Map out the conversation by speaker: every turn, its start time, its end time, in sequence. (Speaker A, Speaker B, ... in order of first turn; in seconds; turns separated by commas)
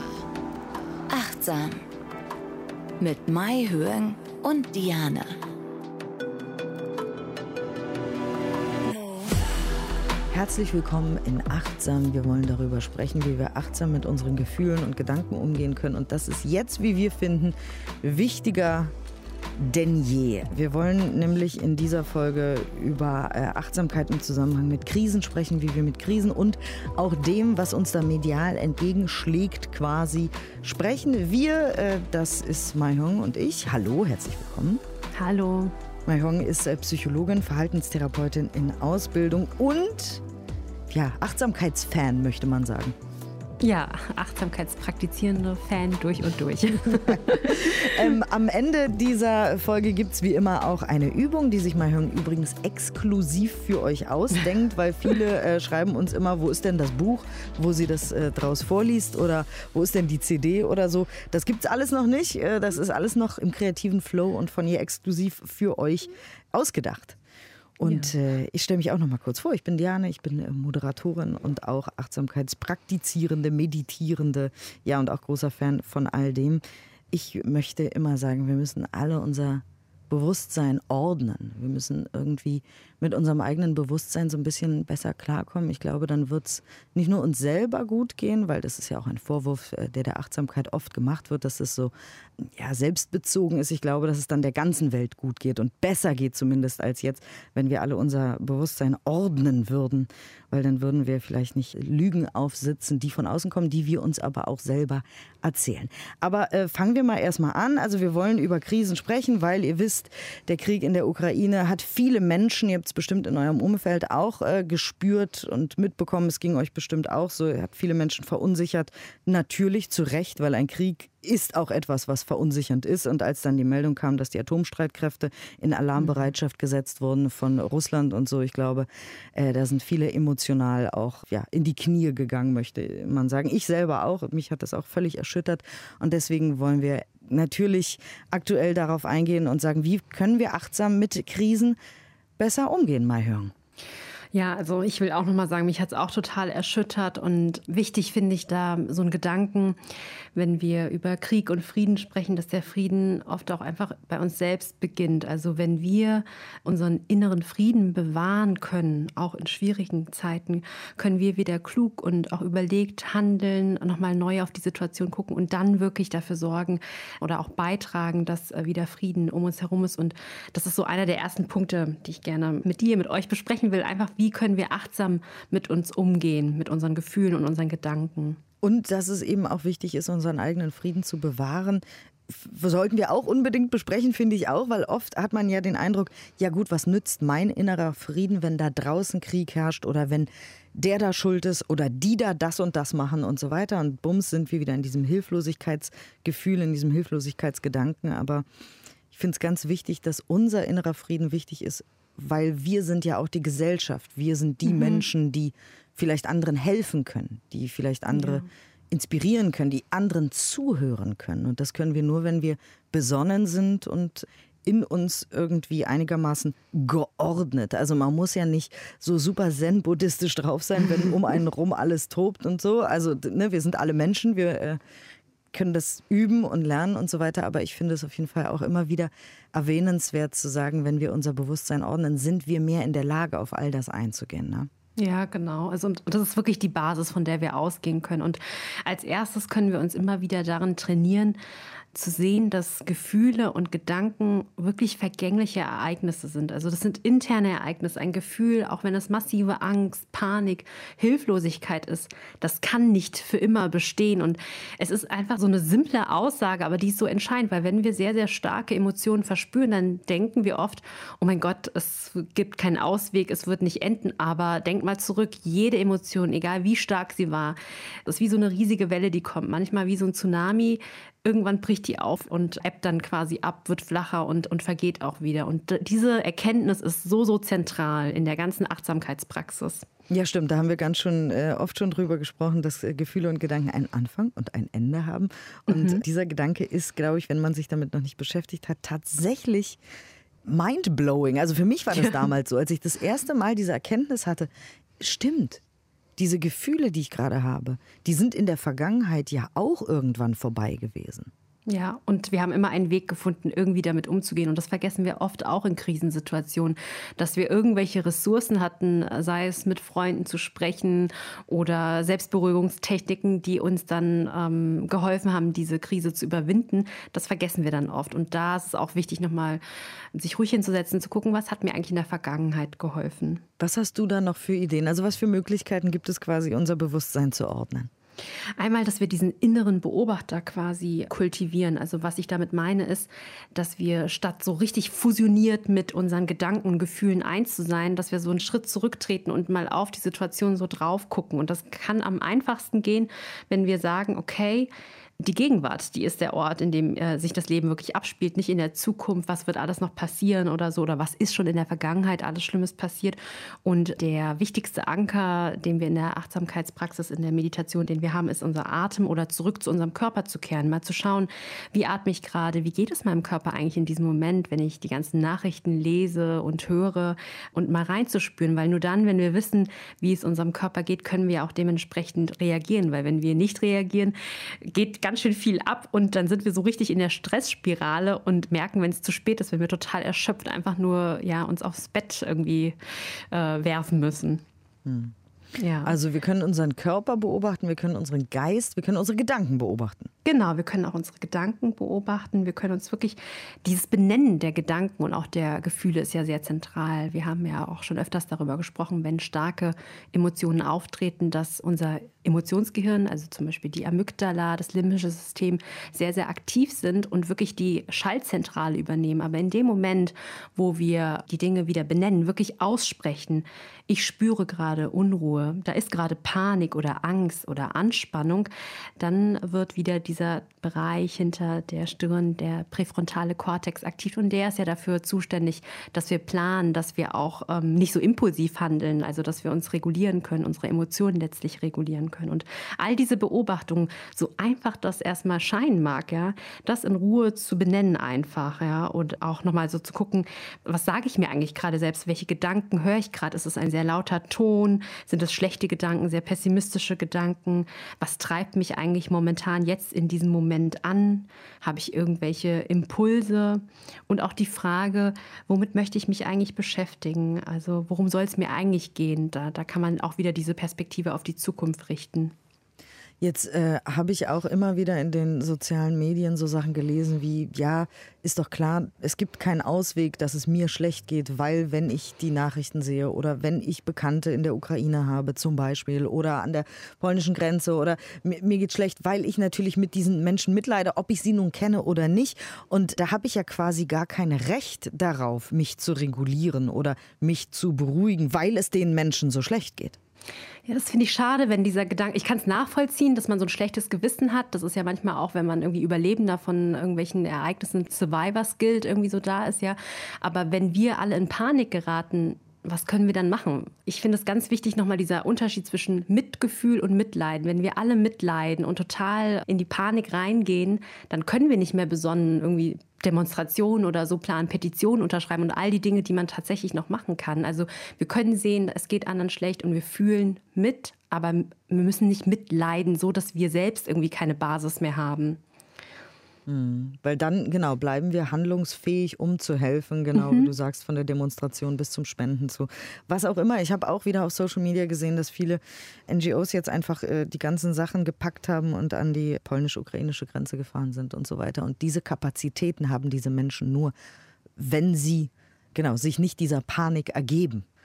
Speaker A: 1.1-1.8, Speaker A: 3.0-5.4, Speaker B: 10.3-18.9, Speaker B: 19.6-34.8, Speaker C: 35.1-35.7, Speaker B: 36.0-40.2, Speaker B: 40.9-43.0, Speaker C: 43.6-48.1, Speaker B: 46.9-67.2, Speaker B: 67.8-141.8, Speaker C: 67.8-68.1, Speaker B: 142.4-143.5, Speaker C: 144.3-149.8, Speaker C: 150.3-178.4, Speaker B: 178.6-198.4, Speaker B: 199.1-224.8, Speaker C: 204.7-205.0, Speaker C: 208.1-208.5, Speaker B: 225.5-234.7, Speaker C: 235.0-241.4, Speaker C: 241.9-279.9, Speaker B: 280.1-289.8, Speaker C: 285.7-286.0, Speaker B: 290.4-295.6, Speaker B: 296.2-301.3, Speaker C: 301.7-319.6, Speaker C: 320.1-323.4, Speaker B: 323.6-327.9, Speaker C: 328.6-384.4, Speaker B: 384.8-385.1, Speaker C: 385.6-385.9, Speaker B: 385.8-390.1, Speaker C: 390.2-462.3, Speaker B: 463.2-490.0, Speaker C: 490.7-525.4, Speaker B: 526.5-543.9, Speaker C: 530.1-530.5, Speaker B: 544.6-547.6